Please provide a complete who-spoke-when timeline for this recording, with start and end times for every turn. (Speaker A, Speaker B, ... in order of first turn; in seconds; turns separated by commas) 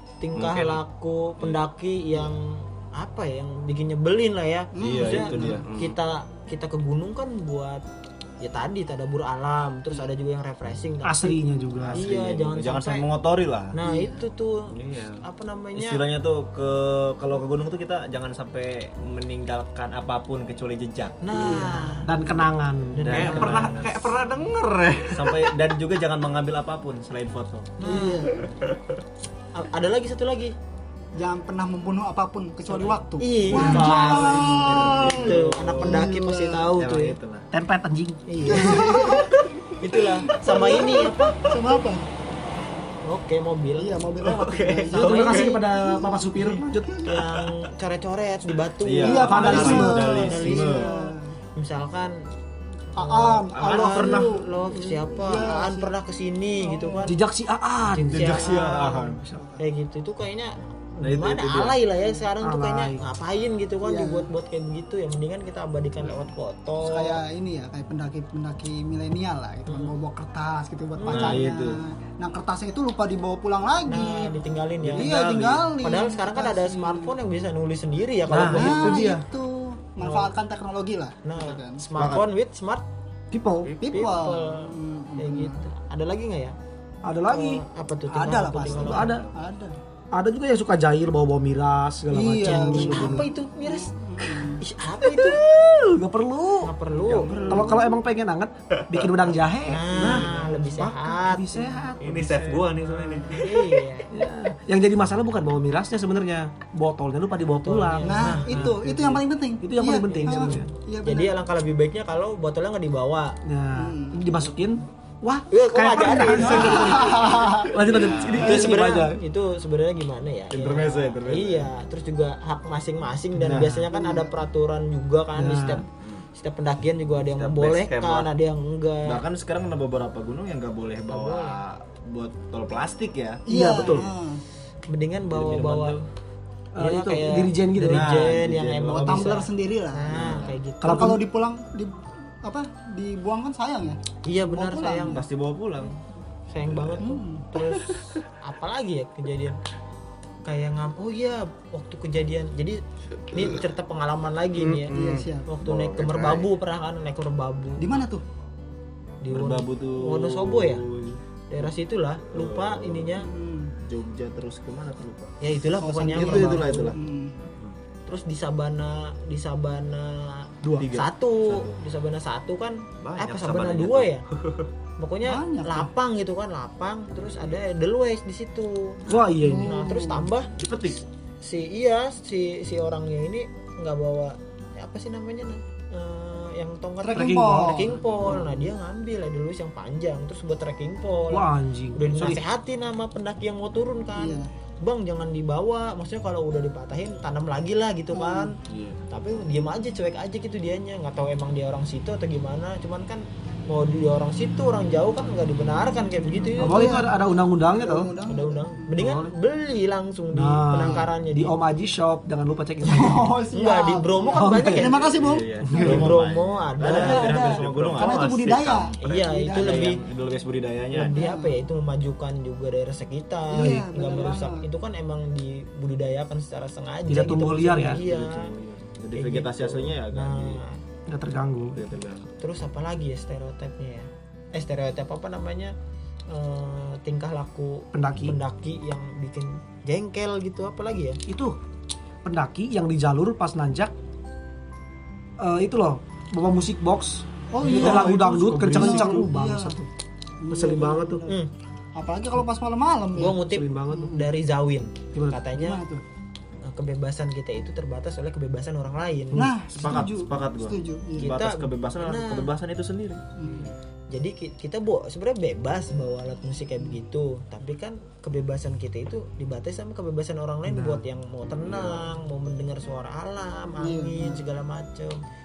Speaker A: 0.2-7.8, Speaker B: 0.4-0.8, Speaker C: 4.7-5.6, Speaker D: 4.8-5.6, Speaker B: 5.4-6.0, Speaker A: 8.4-11.4, Speaker E: 11.0-12.1, Speaker D: 11.8-13.8, Speaker A: 11.9-13.1, Speaker A: 13.7-16.0, Speaker C: 13.8-14.2, Speaker B: 14.7-15.2, Speaker D: 15.7-21.6, Speaker A: 21.2-22.1, Speaker C: 21.3-22.0, Speaker E: 22.0-23.7, Speaker A: 22.9-23.8, Speaker D: 23.0-24.1, Speaker B: 23.1-25.5, Speaker D: 25.1-27.7, Speaker A: 27.8-28.4, Speaker C: 27.8-28.5, Speaker A: 29.5-30.6, Speaker C: 31.1-36.7, Speaker A: 32.7-37.1, Speaker D: 33.5-36.1, Speaker D: 36.7-37.5, Speaker E: 37.5-38.6, Speaker A: 38.3-41.4, Speaker C: 38.5-42.1, Speaker A: 43.0-44.0, Speaker C: 43.8-46.6, Speaker B: 44.2-44.9, Speaker A: 44.8-45.6, Speaker E: 44.9-47.1, Speaker A: 47.0-52.2, Speaker D: 48.8-50.9, Speaker C: 49.0-51.4, Speaker E: 49.2-50.0, Speaker C: 52.9-55.9, Speaker A: 53.0-57.2, Speaker D: 53.5-54.3, Speaker C: 56.6-57.1, Speaker E: 57.0-58.6, Speaker A: 57.9-67.2, Speaker D: 58.1-59.2, Speaker E: 59.1-59.4, Speaker C: 59.3-59.6, Speaker D: 61.0-61.8, Speaker E: 62.4-63.0, Speaker C: 63.8-64.3, Speaker C: 66.8-74.4, Speaker A: 69.7-69.9, Speaker A: 71.0-71.4, Speaker D: 71.1-71.8, Speaker A: 73.9-75.2, Speaker D: 74.8-75.7, Speaker C: 74.9-77.2, Speaker A: 75.8-79.2, Speaker D: 78.3-79.2, Speaker C: 78.3-81.8, Speaker E: 78.4-78.7, Speaker A: 80.0-80.3, Speaker A: 81.2-82.9, Speaker D: 82.0-82.3, Speaker E: 83.3-83.8, Speaker B: 83.6-84.1, Speaker C: 83.8-85.7, Speaker A: 83.8-86.5, Speaker E: 87.0-89.3, Speaker A: 87.3-89.2, Speaker C: 88.2-89.8, Speaker B: 88.9-89.3, Speaker E: 90.1-93.3, Speaker C: 92.1-94.6, Speaker A: 92.4-93.9, Speaker A: 94.6-95.4, Speaker E: 95.0-96.7, Speaker A: 96.6-97.8, Speaker C: 97.0-97.9, Speaker E: 97.5-102.6, Speaker B: 98.8-99.0, Speaker A: 99.7-102.0, Speaker B: 102.0-103.6, Speaker C: 103.0-103.5, Speaker A: 103.2-104.1, Speaker E: 104.1-110.7, Speaker A: 107.6-108.7, Speaker C: 108.0-111.4, Speaker A: 110.2-113.4, Speaker E: 113.4-119.2, Speaker C: 113.7-114.2, Speaker A: 115.5-117.1, Speaker C: 116.4-117.7, Speaker B: 117.9-118.4, Speaker A: 118.3-129.2, Speaker D: 120.5-121.7, Speaker E: 123.4-123.8, Speaker D: 123.4-123.8, Speaker C: 123.9-124.3, Speaker E: 125.3-125.8, Speaker B: 127.3-128.3, Speaker D: 129.1-134.0, Speaker A: 131.1-131.6, Speaker E: 133.5-134.1, Speaker C: 133.5-134.4, Speaker A: 134.9-136.0, Speaker D: 135.3-136.1, Speaker E: 136.7-138.1, Speaker A: 136.8-141.2, Speaker D: 137.8-139.4, Speaker C: 138.9-140.1, Speaker D: 140.1-140.6, Speaker E: 140.8-141.2, Speaker C: 140.9-145.2, Speaker A: 144.2-145.2, Speaker D: 145.1-145.9, Speaker A: 146.5-149.6, Speaker C: 147.0-147.5, Speaker A: 150.4-152.8, Speaker B: 153.2-153.7, Speaker A: 153.3-154.9, Speaker B: 154.6-156.2, Speaker C: 154.9-155.5, Speaker A: 155.4-158.0, Speaker D: 156.1-156.4, Speaker C: 157.8-158.2, Speaker A: 159.2-160.8, Speaker D: 159.3-161.7, Speaker A: 161.5-163.3, Speaker D: 162.3-163.2, Speaker C: 163.2-163.8, Speaker D: 163.8-165.4, Speaker A: 165.4-167.0, Speaker C: 165.8-167.4, Speaker E: 166.1-166.9, Speaker D: 166.2-166.9, Speaker A: 168.1-174.2, Speaker E: 170.6-170.9, Speaker D: 170.8-171.7, Speaker B: 173.0-174.7, Speaker A: 175.0-198.6, Speaker C: 175.2-175.9, Speaker E: 179.1-179.9, Speaker C: 179.4-180.3, Speaker D: 180.6-181.0, Speaker C: 187.0-188.7, Speaker E: 187.2-187.9, Speaker E: 191.3-192.4, Speaker C: 194.2-194.5, Speaker C: 198.1-198.5, Speaker D: 198.7-199.0, Speaker A: 199.1-207.0, Speaker C: 206.5-208.9, Speaker E: 206.6-208.1, Speaker A: 208.2-211.6, Speaker E: 209.0-209.3, Speaker E: 210.3-213.4, Speaker C: 212.8-216.1, Speaker A: 213.5-215.0, Speaker E: 214.3-214.9, Speaker B: 215.1-215.7, Speaker D: 215.2-221.2, Speaker E: 215.6-216.0, Speaker A: 215.8-217.6, Speaker C: 216.8-219.9, Speaker B: 217.6-218.9, Speaker A: 219.0-220.0, Speaker A: 220.9-228.5, Speaker C: 221.0-221.6, Speaker C: 223.5-224.7, Speaker E: 227.1-228.0, Speaker D: 227.9-230.6, Speaker A: 229.1-230.8, Speaker E: 231.1-231.8, Speaker D: 231.7-232.3, Speaker A: 232.4-235.7, Speaker A: 236.3-241.2, Speaker E: 237.9-238.4, Speaker E: 241.3-241.6, Speaker E: 242.2-243.9, Speaker E: 245.4-249.9, Speaker C: 247.5-249.8, Speaker A: 247.6-249.2, Speaker D: 247.8-248.8, Speaker C: 250.4-251.4, Speaker E: 250.5-251.2, Speaker C: 251.9-254.2, Speaker A: 253.1-255.8, Speaker E: 253.4-254.2, Speaker E: 255.1-255.5, Speaker C: 255.5-256.0, Speaker A: 256.6-259.5, Speaker C: 259.3-261.3, Speaker D: 259.8-263.2, Speaker A: 261.2-262.5, Speaker C: 263.4-263.7, Speaker A: 264.1-275.2, Speaker E: 270.7-271.1, Speaker D: 271.6-272.1, Speaker C: 273.8-274.4